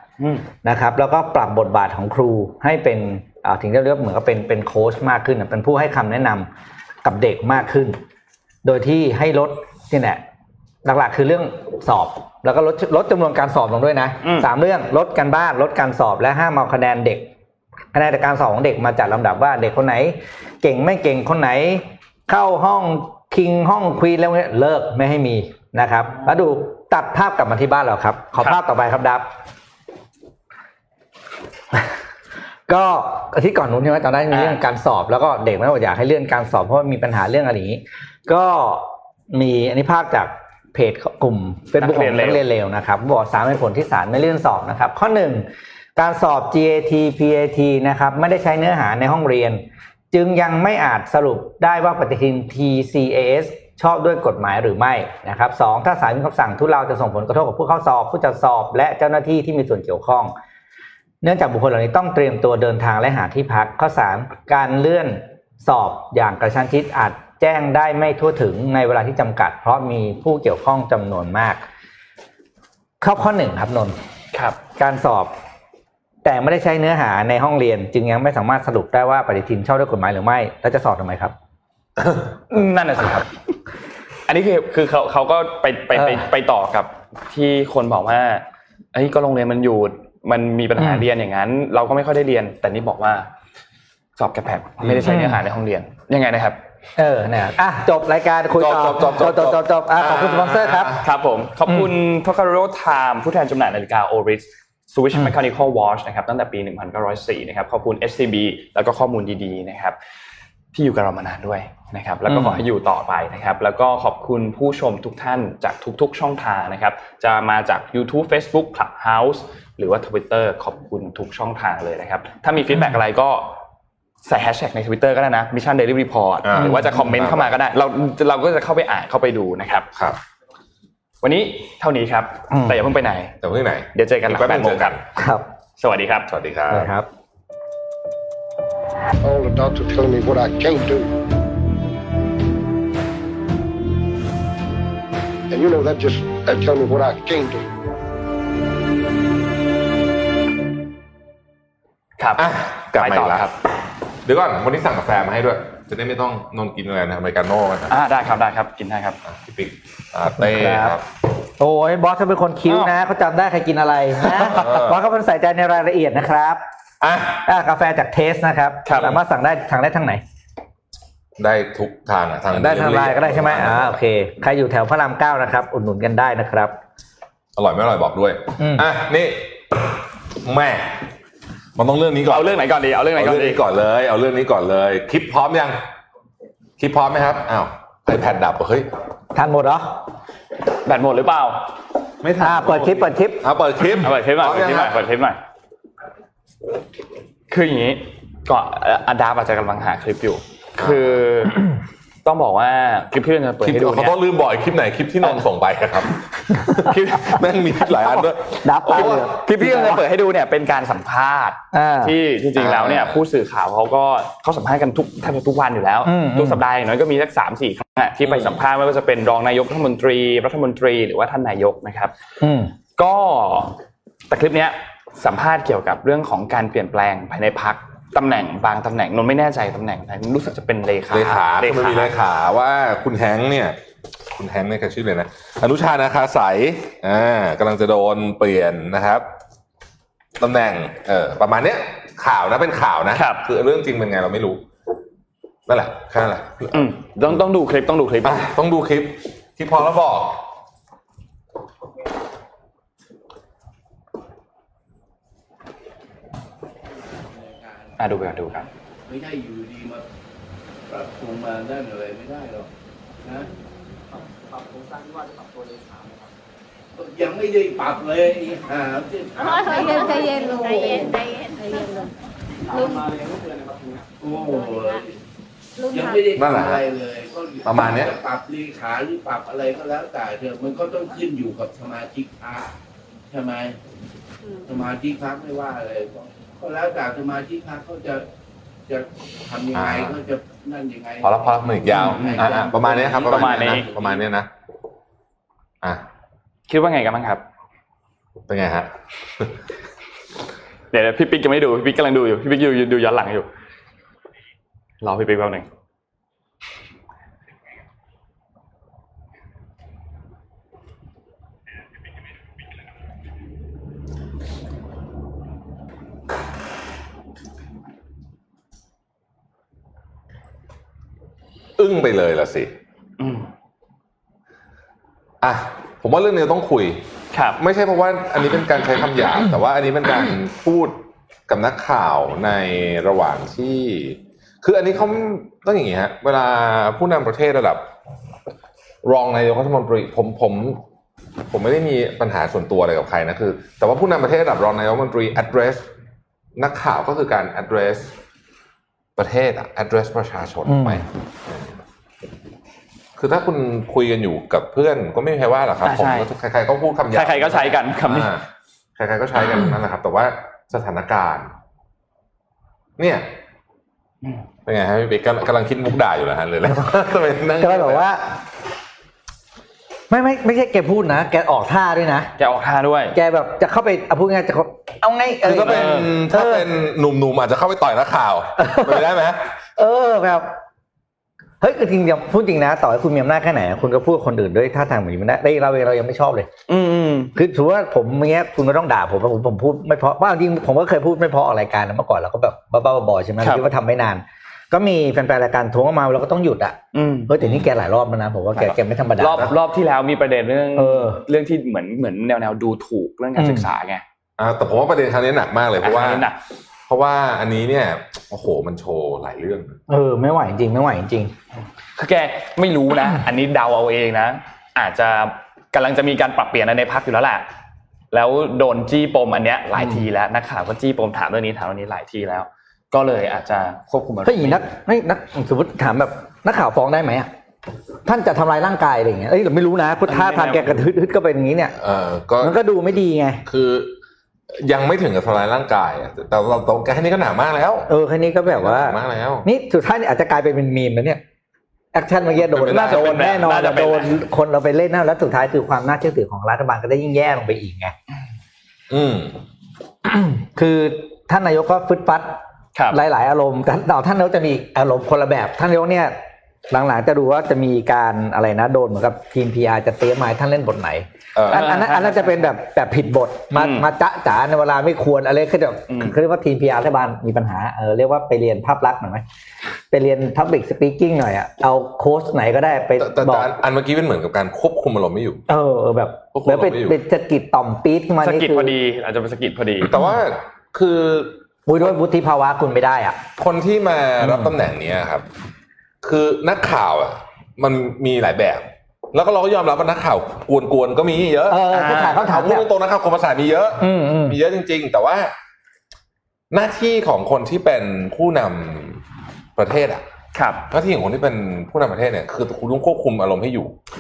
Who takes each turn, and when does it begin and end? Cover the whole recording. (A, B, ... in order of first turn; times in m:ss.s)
0:00.2-0:00.4 A
0:00.6-0:06.5 B
0:07.0-0:08.0 B
0:08.6-0:10.2 B
0:10.8-0:17.3 B
0:14.2-0:14.5 A
0:17.9-0:29.3 B
0:32.7-1:00.3 B
0:34.3-0:34.6 A
0:41.8-0:42.4 A
1:01.2-1:11.6 B
1:13.0-1:14.0 B
1:14.3-1:14.6 A
1:14.8-1:15.3 B
1:16.2-1:21.3 B
1:22.5-1:23.3 A
1:24.3-1:33.3 A
1:25.9-1:26.3 B
1:30.8-1:31.0 B
1:34.2-1:36.6 A
1:34.8-1:35.1 C
1:35.0-1:35.4 B
1:37.0-1:41.0 B
1:38.6-1:41.0 C
1:41.0-1:50.0 A
1:41.7-1:41.9 B
1:50.7-2:03.6 A
1:52.3-1:52.6 B
2:04.2-2:09.9 A
2:06.4-2:07.5 C
2:06.6-2:07.0 B
2:11.2-2:13.3 A
2:12.5-2:12.8 B
2:13.4-2:15.0 C
2:13.9-2:15.0 A
2:15.2-2:15.5 B
2:15.8-2:16.3 A
2:16.3-2:16.9 C
2:16.7-2:17.1 B
2:19.2-2:21.1 D
2:25.5-2:27.7 D
2:32.2-2:33.6 A
2:32.4-2:33.5 C
2:34.2-2:37.9 C
2:37.9-2:39.2 A
2:39.3-2:41.0 C
2:40.4-2:41.0 B
2:41.6-2:46.6 B
2:44.3-2:45.0 C
2:47.0-2:47.4 C
2:47.4-2:50.2 B
2:48.9-2:49.2 A
2:51.4-2:54.0 C
2:52.5-2:56.8 B
2:57.6-3:01.0 C
2:58.6-2:58.9 B
3:01.8-3:05.8 C
3:02.3-3:03.6 A
3:06.8-3:08.9 C
3:09.3-3:10.0 B
3:10.8-3:11.7 A
3:12.2-3:15.1 C
3:12.4-3:13.4 B
3:14.0-3:15.4 A
3:17.5-3:21.7 A
3:20.8-3:21.2 C
3:22.2-3:24.2 A
3:23.6-3:29.3 C
3:26.8-3:27.4 A
3:27.9-3:30.0 B
3:28.9-3:42.1 A
3:31.7-3:32.2 B
3:32.6-3:33.2 C
3:36.0-3:36.6 B
3:38.2-3:38.6 C
3:42.4-3:42.7 B
3:43.0-3:43.8 A
3:44.3-3:52.1 A
3:51.1-3:53.8 C
3:54.3-3:59.3 C
4:00.4-4:04.6 C
4:03.2-4:03.4 A
4:05.7-4:06.8 C
4:06.7-4:08.4 A
4:08.2-4:10.5 C
4:17.0-4:18.1 E
4:18.0-4:18.7 A
4:19.1-4:20.0 E
4:20.9-4:22.7 E
4:23.2-4:23.5 E
4:27.0-4:31.1 E
4:29.5-4:32.1 F
4:32.7-4:35.0 F
4:34.2-4:35.2 E
4:35.8-4:36.2 F
4:35.9-4:42.7 E
4:36.4-4:36.9 C
4:37.6-4:38.2 C
4:43.3-4:43.8 E
4:44.7-4:48.3 E
4:48.9-4:54.2 E
4:49.7-4:50.2 C
4:51.2-4:54.5 C
4:51.9-4:52.6 A
4:53.2-4:53.9 A
4:56.7-4:57.4 A
4:58.5-4:59.5 C
5:00.9-5:03.5 A
5:05.0-5:05.7 A
5:21.8-5:22.7 C
5:23.2-5:23.5 A
5:25.4-5:27.0 C
5:27.3-5:27.6 A
5:27.6-5:37.9 C
5:39.0-5:40.8 C
5:41.5-5:45.9 C
5:46.6-5:48.2 C
5:49.2-5:51.7 C
5:50.7-5:51.0 B
5:53.2-5:58.4 C
5:55.8-5:56.3 A
5:57.1-5:58.3 A
5:59.0-6:01.5 C
6:03.0-6:03.3 C
6:04.6-6:08.1 C
6:07.6-6:08.3 B
6:10.1-6:12.3 B
6:12.4-6:13.2 A
6:13.2-6:16.7 B
6:15.4-6:19.4 C
6:15.6-6:16.1 A
6:18.6-6:19.1 B
6:19.8-6:20.5 B
6:21.6-6:26.5 B
6:26.7-6:27.3 A
6:27.4-6:39.5 B
6:33.4-6:33.7 A
6:36.9-6:37.3 A
6:37.4-6:37.7 C
6:38.6-6:44.0 A
6:40.8-6:41.2 B
6:43.4-6:43.7 B
6:44.4-6:46.3 C
6:45.8-6:46.4 A
6:46.9-6:49.8 C
6:49.9-6:51.3 B
6:52.0-6:57.5 A
6:58.1-7:04.7 A
6:59.8-7:00.0 B
7:04.2-7:07.3 B
7:08.1-7:11.8 B
7:10.1-7:10.9 A
7:11.8-7:12.6 C
7:12.4-7:13.4 B
7:13.5-7:14.0 C
7:14.5-7:17.9 C
7:17.9-7:21.2 B
7:18.5-7:19.5 C
7:21.9-7:27.9 B
7:22.4-7:23.4 C
7:22.7-7:24.2 A
7:28.9-7:29.4 C
7:30.0-7:32.4 B
7:32.9-7:36.2 B
7:36.7-7:49.2 B
7:41.4-7:41.7 C
7:41.5-7:42.5 A
7:43.5-7:43.9 A
7:45.9-7:46.2 A
7:49.9-7:53.5 B
7:53.0-7:55.4 C
7:55.5-7:58.7 B
7:56.3-7:57.0 C
7:58.2-7:59.9 A
7:59.8-8:01.9 C
8:01.7-8:03.2 B
8:03.4-8:05.3 C
8:04.2-8:04.5 B
8:06.0-8:15.3 C
8:11.5-8:12.7 B
8:11.7-8:12.2 A
8:13.8-8:14.4 B
8:16.5-8:19.0 C
8:19.6-8:20.0 C
8:20.3-8:20.6 A
8:20.7-8:23.8 C